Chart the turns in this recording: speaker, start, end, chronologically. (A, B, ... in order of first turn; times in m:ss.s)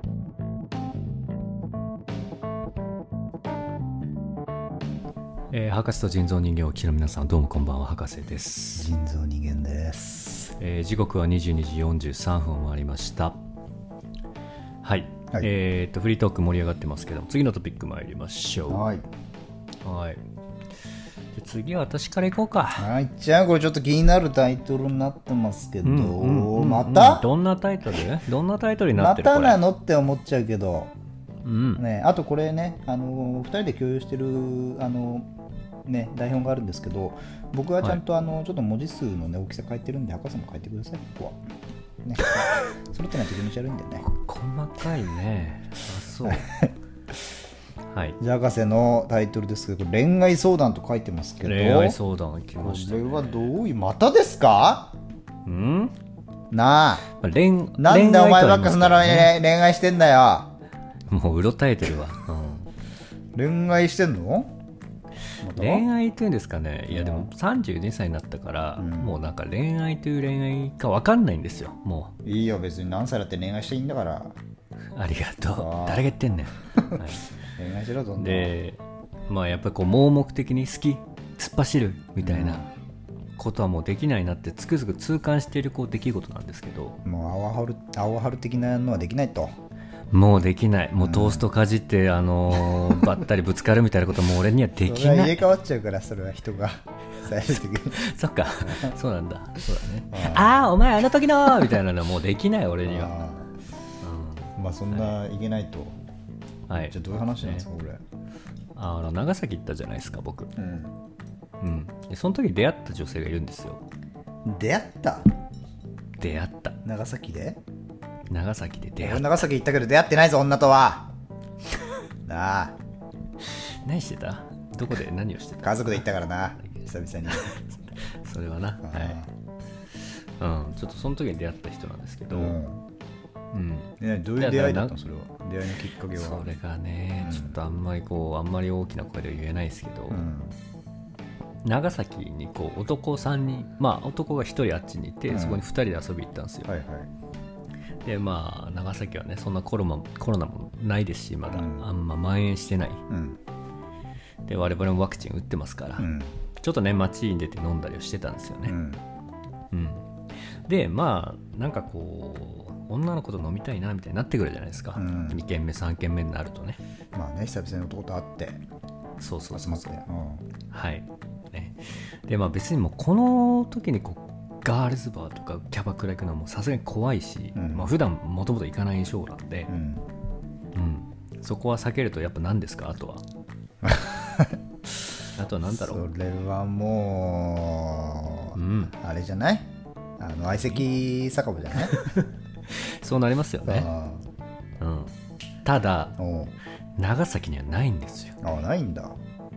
0:05.5-0:08.9 A
0:08.8-0:10.6 B
0:10.6-0:13.4 A
0:14.8-0:18.9 A
0:18.7-0:19.0 B
0:19.8-0:20.2 A
0:21.4-0:22.9 A
0:22.8-0:27.3 B
0:25.8-0:29.6 A
0:28.9-0:30.9 B
0:31.4-0:31.8 A
0:31.8-0:35.3 B
0:35.9-0:41.4 B
0:42.0-0:44.0 B
0:44.0-0:46.5 A
0:46.2-0:46.7 B
0:47.9-0:48.2 A
0:48.2-0:52.0 B
0:51.4-0:53.5 A
0:52.6-0:55.0 B
0:55.5-0:55.9 A
0:56.5-0:57.1 B
0:57.1-0:59.4 A
0:57.8-1:00.5 B
1:01.1-1:02.7 A
1:03.3-1:04.5 B
1:05.4-1:05.9 B
1:05.5-1:12.1 A
1:06.9-1:07.3 B
1:08.8-1:09.2 B
1:12.2-1:14.4 B
1:15.0-1:17.3 A
1:15.5-1:16.2 B
1:16.7-1:17.0 B
1:17.5-1:18.6 B
1:18.2-1:22.7 A
1:22.2-1:22.7 B
1:23.4-1:27.0 A
1:27.0-1:29.6 B
1:30.1-1:35.5 A
1:31.0-1:31.5 B
1:32.7-1:33.2 B
1:34.8-1:38.0 B
1:37.9-1:43.2 A
1:38.6-1:39.0 B
1:40.1-1:40.8 B
1:42.8-1:43.6 B
1:44.0-1:45.2 A
1:44.6-1:46.0 B
1:46.7-1:47.7 A
1:46.9-1:48.0 B
1:48.8-1:50.5 A
1:50.6-1:51.0 B
1:51.6-1:53.8 A
1:54.4-1:55.3 B
1:56.2-1:56.8 A
1:56.8-1:57.6 B
1:58.3-1:59.4 A
1:59.0-2:01.1 B
2:02.2-2:02.8 B
2:03.4-2:06.1 A
2:05.6-2:07.6 B
2:06.6-2:09.2 A
2:08.8-2:09.3 B
2:10.4-2:12.6 A
2:12.3-2:12.8 B
2:13.5-2:15.0 A
2:14.0-2:16.5 B
2:16.1-2:20.3 A
2:17.2-2:17.6 B
2:20.1-2:20.6 B
2:21.6-2:26.7 A
2:25.3-2:25.6 B
2:26.7-2:27.1 B
2:28.0-2:33.0 A
2:31.5-2:31.9 B
2:33.1-2:33.4 B
2:34.5-2:38.8 A
2:36.0-2:36.4 B
2:38.7-2:39.0 B
2:39.7-2:40.1 A
2:40.6-2:46.8 A
2:45.0-2:45.4 B
2:47.1-2:48.6 B
2:49.2-2:50.0 A
2:49.5-2:50.4 B
2:50.7-2:59.7 A
2:57.6-2:57.9 B
2:59.7-3:00.1 B
3:00.7-3:03.2 A
3:03.8-3:04.6 B
3:05.4-3:06.1 A
3:05.6-3:12.1 B
3:08.5-3:08.9 A
3:10.5-3:10.9 A
3:11.7-3:13.9 A
3:13.6-3:14.3 B
3:14.8-3:15.1 A
3:15.6-3:16.2 A
3:16.2-3:16.6 B
3:17.0-3:18.4 A
3:18.4-3:19.2 B